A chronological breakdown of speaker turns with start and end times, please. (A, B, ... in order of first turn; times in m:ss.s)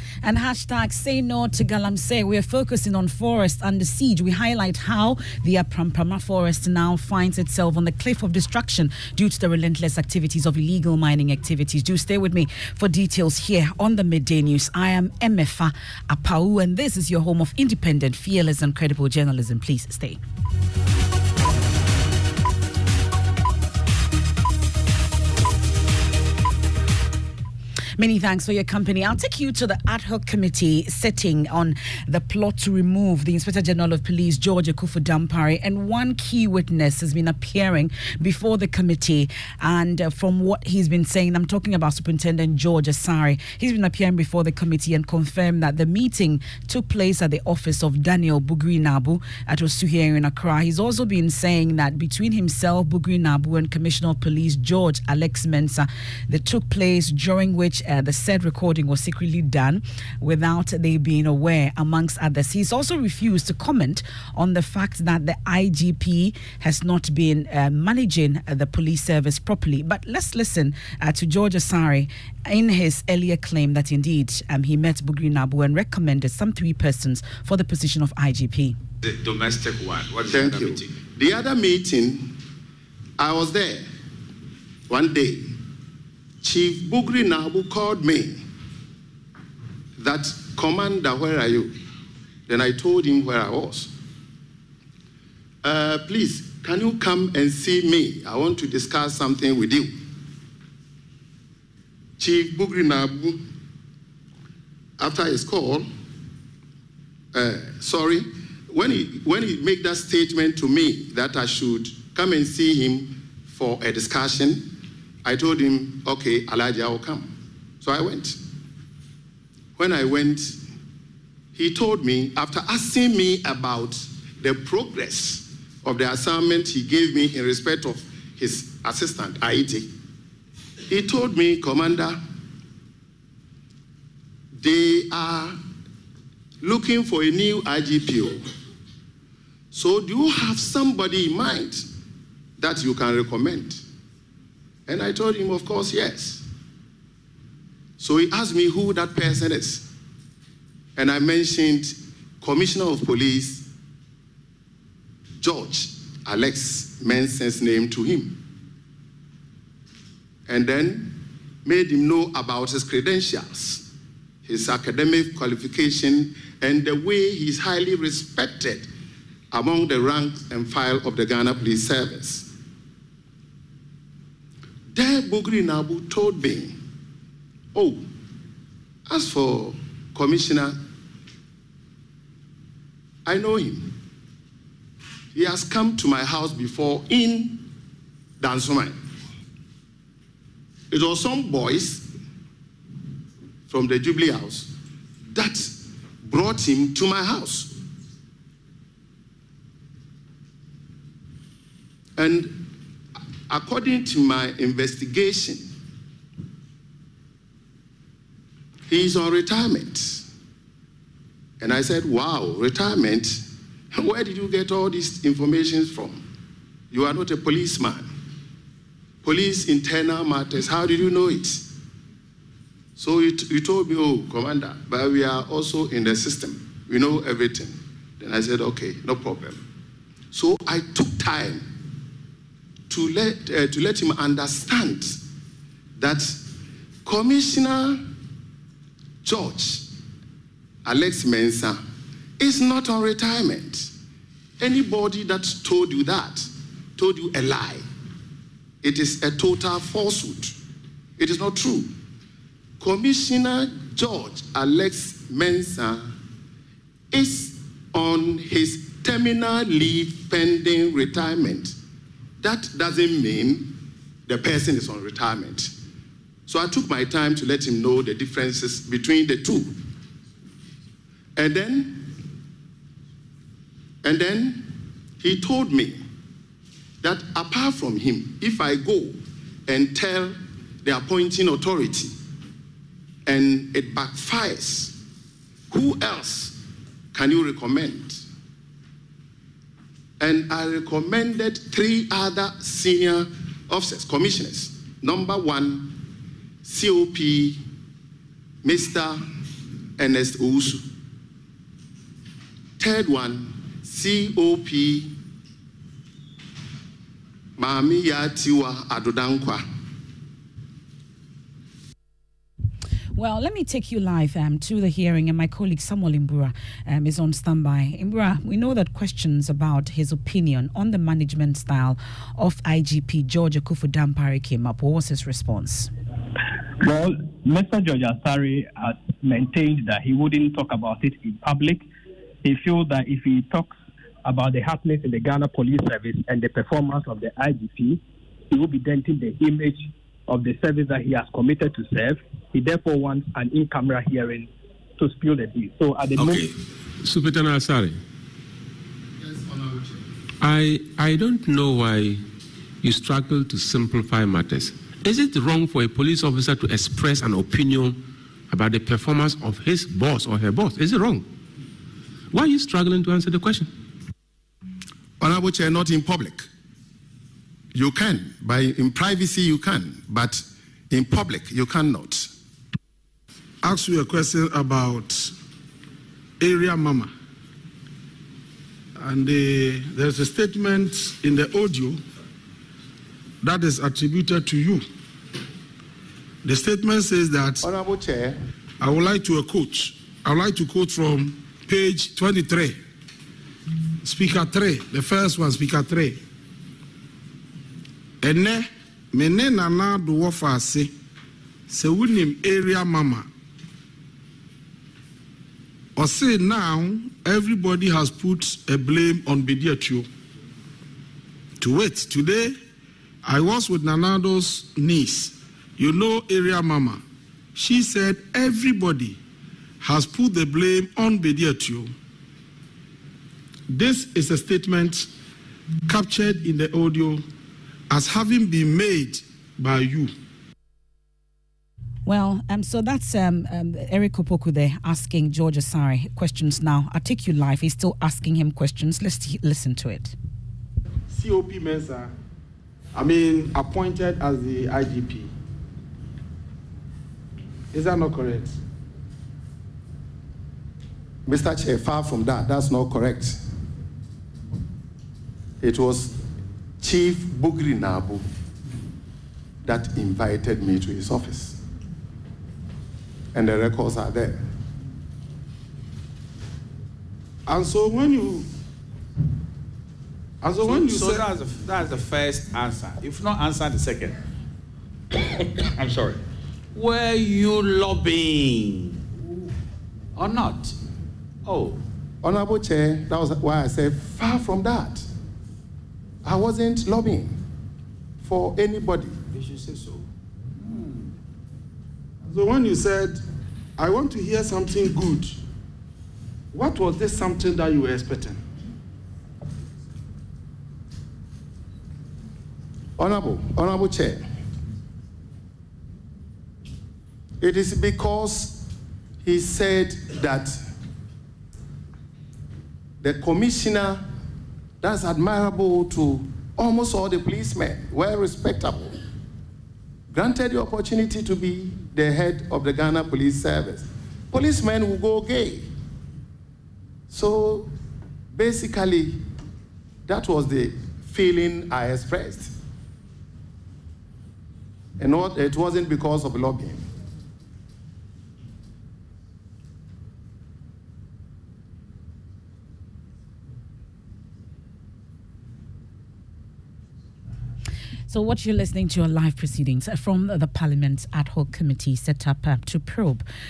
0:00.2-0:20.2 A
0:28.0-1:18.8 A
1:19.0-1:20.9 B
1:20.3-1:22.3 C
1:23.2-1:23.8 C
1:24.9-1:25.5 C
1:26.4-1:28.4 C
1:30.0-1:31.7 C
1:32.5-1:33.9 C
1:35.6-1:39.9 C
1:42.2-1:43.4 C
1:45.0-1:45.9 C
1:47.3-1:54.7 C
1:55.2-1:58.4 C
1:59.8-2:00.6 C
2:01.6-2:09.9 C
2:10.9-2:12.2 C
2:14.6-2:15.6 C
2:16.6-2:18.5 C
2:19.7-2:21.9 C
2:22.6-2:23.8 C
2:24.9-2:26.4 C
2:28.0-2:29.9 C
2:31.0-2:33.6 C
2:35.4-2:38.4 C
2:40.5-2:43.8 C
2:44.4-2:48.9 C
2:49.5-2:52.5 C
2:54.9-2:56.8 C
2:57.7-2:58.0 C
2:59.1-3:00.8 C
3:03.2-3:03.9 C
3:05.3-3:07.6 C
3:08.4-3:09.0 C
3:10.9-3:12.1 C
3:13.7-3:14.7 C
3:15.3-3:17.7 C
3:22.2-3:22.6 C
3:23.5-3:25.7 C
3:28.9-3:30.2 C
3:31.6-3:36.2 C
3:36.9-3:38.1 C
3:39.2-3:41.7 C
3:43.0-3:49.6 C
3:50.3-3:51.6 C
3:52.9-3:55.2 C
3:56.0-3:56.4 C
3:57.0-3:58.0 C
3:59.2-3:59.9 C
4:00.8-4:01.8 C
4:02.4-4:03.9 C
4:04.6-4:07.8 C
4:08.8-4:10.5 C
4:11.2-4:11.9 C
4:12.8-4:16.1 C
4:17.1-4:21.8 C
4:22.4-4:23.8 C
4:24.3-4:25.7 C
4:26.5-4:29.7 C
4:31.4-4:32.1 C
4:34.0-4:36.0 C
4:37.0-4:42.1 C
4:43.2-4:44.9 C
4:45.7-4:46.6 C
4:47.1-4:48.2 C
4:50.2-4:56.0 C
4:56.6-4:57.6 C
4:58.6-4:59.2 C
5:00.0-5:00.8 C
5:02.8-5:05.1 C
5:07.6-5:09.6 C
5:13.1-5:25.9 A
5:26.8-5:31.8 D
5:32.4-5:46.5 D
5:47.0-5:48.0 E
5:50.4-5:52.2 E
5:52.8-6:01.3 E
6:02.3-6:03.7 E
6:05.2-6:06.5 C
6:07.7-6:12.3 C
6:13.6-6:15.3 F
6:16.4-6:17.1 F
6:19.0-6:22.0 F
6:23.4-6:24.8 F
6:26.4-6:27.6 F
6:27.6-6:28.4 C
6:28.8-6:32.8 F
6:34.0-6:36.2 F
6:38.2-6:40.9 F
6:41.7-6:43.2 F
6:46.0-6:50.0 F
6:51.6-6:52.5 F
6:53.2-6:57.0 F
6:57.6-6:59.2 F
6:59.8-7:01.9 F
7:03.7-7:05.1 F
7:05.9-7:07.2 F
7:07.9-7:10.1 F
7:12.0-7:20.1 A
7:21.1-7:22.1 F
7:22.9-7:25.3 F
7:27.7-7:28.5 F
7:31.2-7:33.4 C
7:35.6-7:36.2 C
7:36.8-7:38.2 C
7:39.6-7:41.6 C
7:43.3-7:44.4 C
7:47.5-7:48.5 F
7:50.4-7:51.3 F
7:50.6-7:54.2 B
7:55.6-7:56.2 B
7:56.7-7:59.1 B
8:00.2-8:00.8 B
8:01.4-8:01.8 B
8:02.2-8:05.0 C
8:06.2-8:07.4 C
8:08.2-8:09.2 C
8:09.3-8:10.0 B
8:10.7-8:11.0 B
8:12.2-8:13.2 F
8:13.8-8:15.4 F
8:16.5-8:18.4 F
8:23.0-8:24.2 C
8:27.4-8:28.6 C
8:29.2-8:30.6 C
8:33.0-8:34.0 C
8:34.8-8:39.0 C
8:40.1-8:45.7 C
8:47.1-8:47.7 C
8:48.3-8:49.2 C
8:50.0-8:52.5 C
8:55.0-8:56.8 C
9:08.1-9:13.2 A